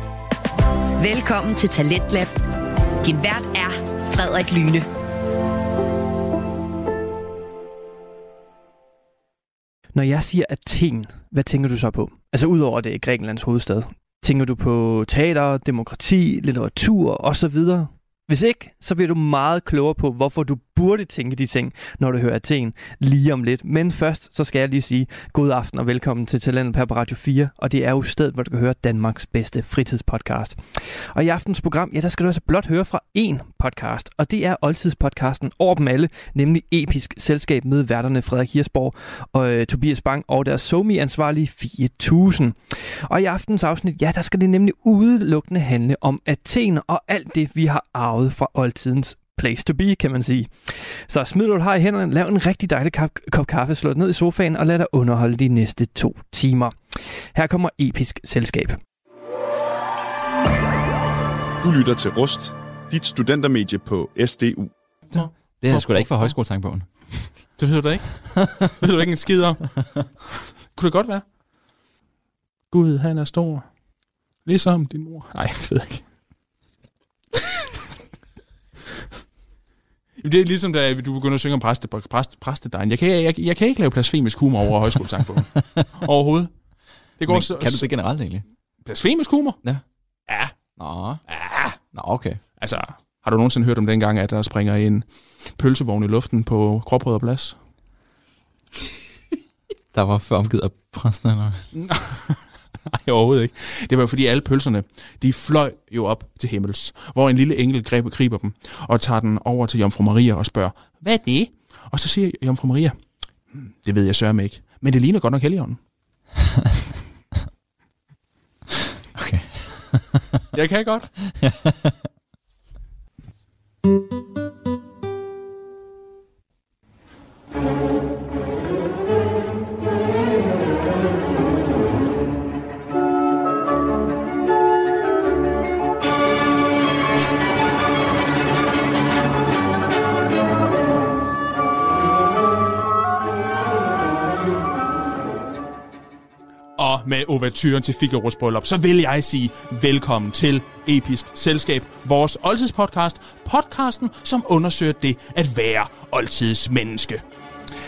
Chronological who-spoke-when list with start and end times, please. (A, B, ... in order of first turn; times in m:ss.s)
0:01.0-0:02.3 A
0:03.0-0:04.9 A
0:09.9-0:58.8 B
1:01.6-1:04.7 C
1:05.1-1:06.3 D
1:05.1-1:06.8 E
1:07.6-1:09.8 D
1:08.4-1:08.7 E
1:10.7-1:11.2 D
1:12.7-1:13.6 D
1:14.4-1:16.0 D
1:20.2-1:26.5 D
1:27.2-1:27.9 D
1:27.2-1:28.4 E
1:28.8-1:29.6 D
1:30.3-1:30.5 D
1:30.8-1:31.2 E
1:31.3-1:31.8 D
1:31.9-1:32.4 E
1:32.6-1:37.5 D
1:39.9-1:41.6 E
1:41.7-1:52.9 D
1:53.5-1:55.8 D
1:59.1-2:00.4 E
2:00.5-2:01.1 D
2:01.3-2:02.0 E
2:26.8-2:37.2 D